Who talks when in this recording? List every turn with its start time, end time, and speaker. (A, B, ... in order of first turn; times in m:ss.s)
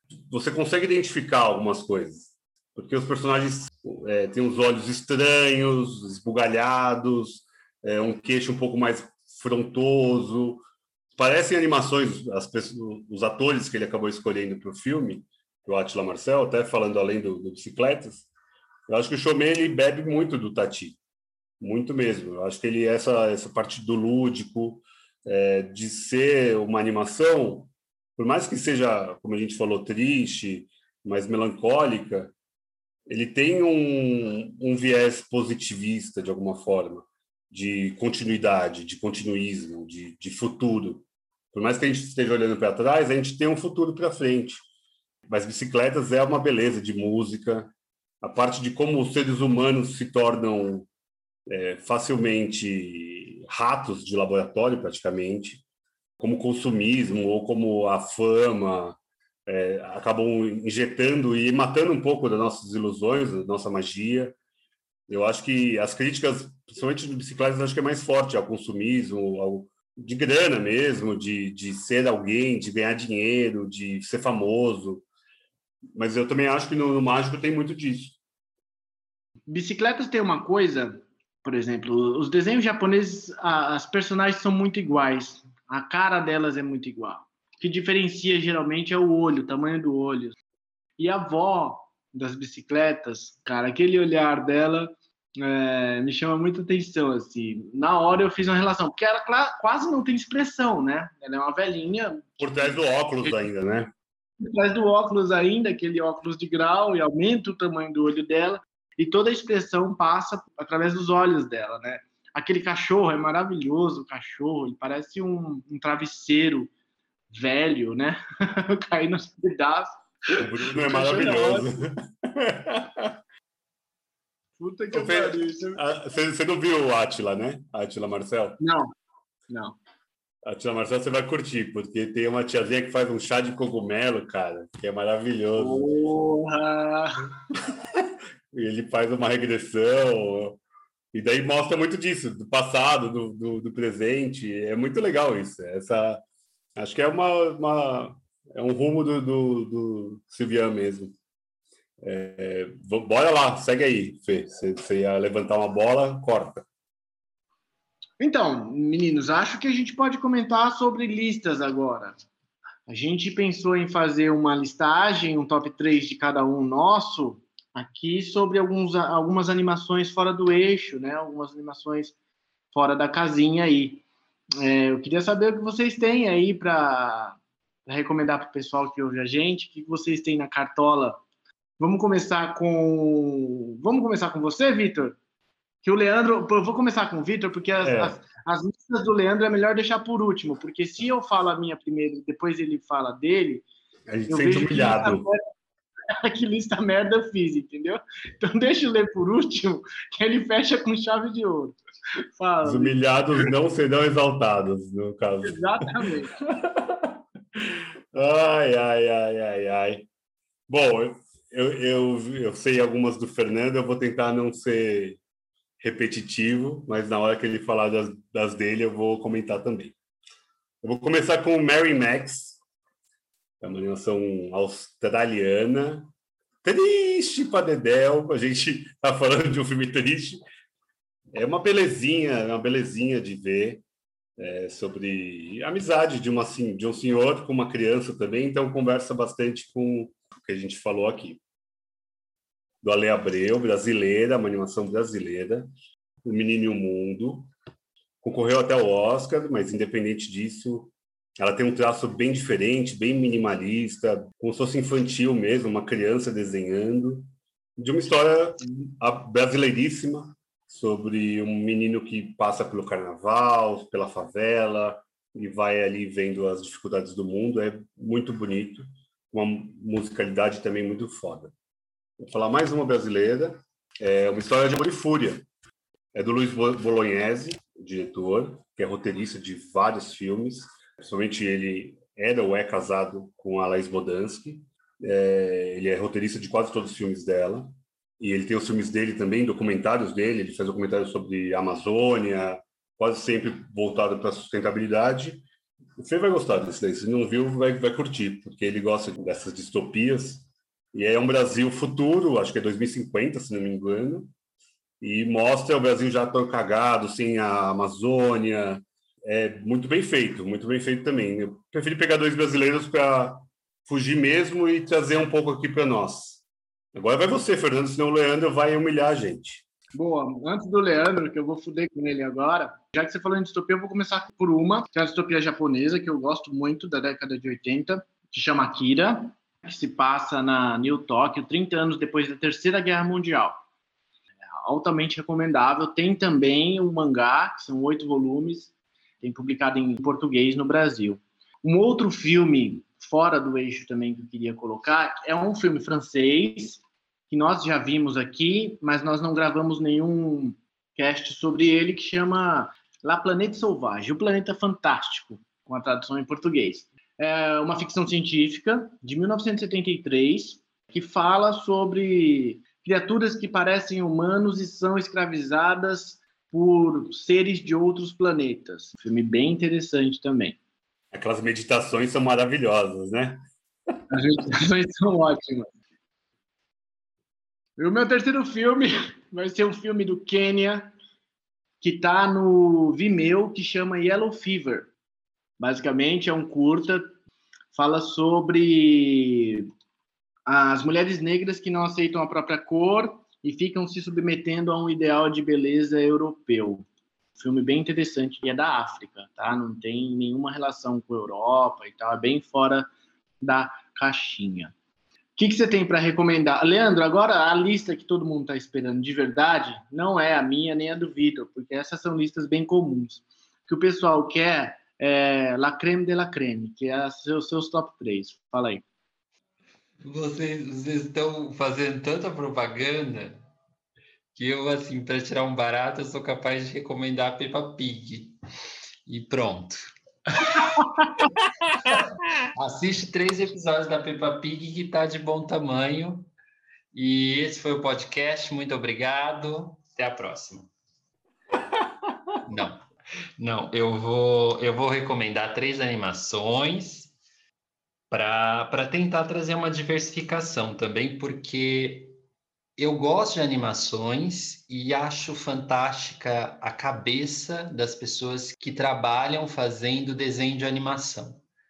0:00.2-0:10.6 A
0:11.2-0:18.3 A
0:18.9-0:21.0 A
0:21.6-0:32.4 A
0:33.1-0:44.6 A
0:45.3-0:50.9 A
0:51.5-0:55.6 A
0:56.2-1:04.4 A
1:05.1-1:15.1 A
1:16.0-1:18.2 A
1:19.5-1:30.4 B
1:31.0-1:43.4 B
1:42.4-1:43.9 A
1:44.4-1:56.7 B
1:57.3-2:01.7 B
2:00.4-2:03.2 A
2:04.6-2:05.8 B
2:04.9-2:08.6 A
2:08.6-2:08.9 B
2:09.5-2:09.8 B
2:10.5-2:15.9 A
2:15.6-2:17.3 B
2:18.0-2:20.6 A
2:21.1-2:26.2 A
2:26.8-2:31.2 A
2:32.0-2:36.7 A
2:38.2-2:42.2 B
2:42.9-2:52.2 B
2:52.7-2:54.0 B
2:54.6-3:01.2 B
3:01.8-3:05.2 B
3:05.8-3:13.6 B
3:07.8-3:08.2 A
3:14.1-3:15.3 A
3:14.3-3:15.4 B
3:16.1-3:21.8 B
3:22.4-3:23.5 B
3:22.6-3:26.0 A
3:25.5-3:26.4 B
3:26.6-3:30.1 A
3:30.7-3:35.2 A
3:35.8-3:40.0 A
3:40.8-3:42.6 A
3:43.6-3:46.1 A
3:46.6-3:50.4 A
3:51.3-3:53.8 A
3:54.4-4:01.4 A
4:02.8-4:05.7 A
4:06.2-4:07.5 A
4:08.2-4:31.5 A
4:32.2-4:35.5 A
4:36.1-4:55.4 A
4:56.0-5:04.3 A
5:05.0-5:16.4 A
5:17.0-5:19.7 A
5:19.9-5:33.6 B
5:34.6-6:10.6 B
6:11.1-6:13.4 A
6:14.1-6:15.7 B
6:17.8-6:21.0 B
6:21.8-6:24.9 B
6:25.6-6:27.2 B
6:27.7-6:29.7 B
6:30.5-6:36.9 B
6:37.4-6:42.9 B
6:43.4-6:44.7 B
6:45.4-6:58.8 B
7:00.0-7:03.4 C
7:04.3-7:08.4 C
7:09.1-7:10.8 C
7:11.7-7:12.0 A
7:12.5-7:16.3 C
7:16.9-7:20.7 C
7:22.4-7:22.8 C
7:23.4-7:27.1 C
7:28.1-7:32.2 C
7:32.8-7:41.4 C